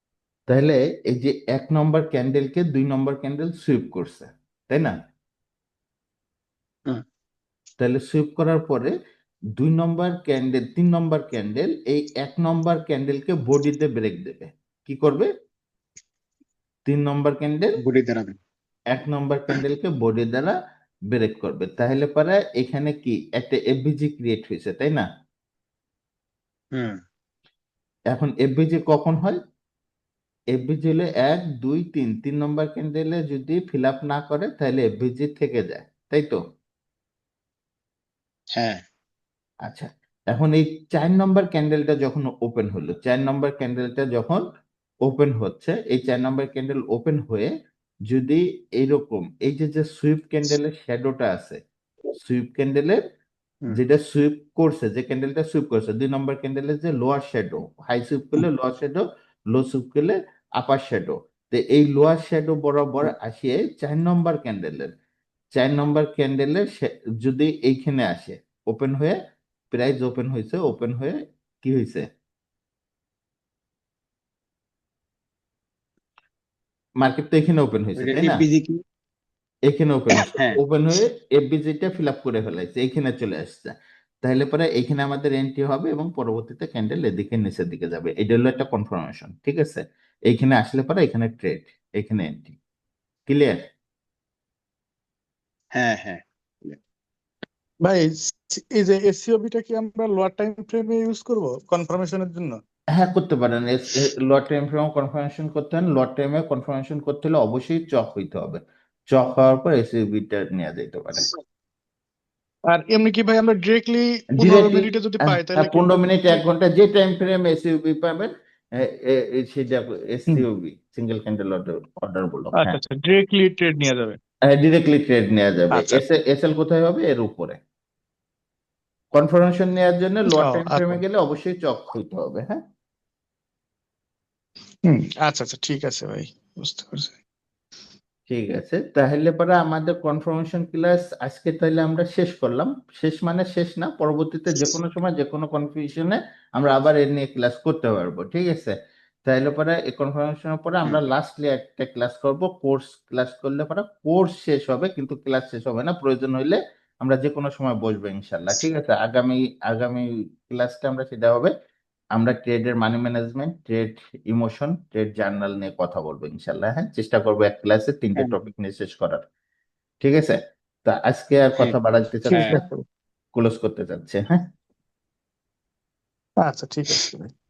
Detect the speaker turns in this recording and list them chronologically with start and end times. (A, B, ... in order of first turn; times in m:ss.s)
0:00.5-0:05.0 A
0:07.8-0:09.0 A
0:09.6-0:15.3 A
0:16.9-0:17.7 A
0:17.8-0:18.4 B
0:18.9-0:20.6 A
0:21.1-0:25.1 A
0:26.8-0:27.0 B
0:28.1-0:29.4 A
0:30.5-0:36.4 A
0:38.6-0:38.8 B
0:39.7-0:44.4 A
0:45.1-0:47.5 A
0:48.1-0:51.6 A
0:52.1-0:53.0 A
0:53.7-1:04.9 A
1:05.6-1:09.2 A
1:09.7-1:12.0 A
1:17.0-1:18.4 A
1:18.0-1:18.8 B
1:19.7-1:32.6 A
1:20.2-1:20.6 B
1:33.3-1:33.6 A
1:35.8-1:36.8 B
1:37.8-1:42.6 C
1:43.0-1:48.6 A
1:49.1-1:51.3 A
1:52.7-1:56.4 C
1:54.4-2:02.8 A
2:02.6-2:04.2 C
2:04.5-2:07.6 A
2:05.7-2:06.0 C
2:09.2-2:12.6 A
2:10.3-2:11.0 C
2:14.9-2:17.1 C
2:18.3-2:28.8 A
2:29.3-2:41.5 A
2:42.2-2:49.2 A
2:50.0-2:52.6 A
2:52.3-2:52.8 C
2:52.3-2:52.6 B
2:53.4-2:54.4 A
2:56.4-2:57.3 C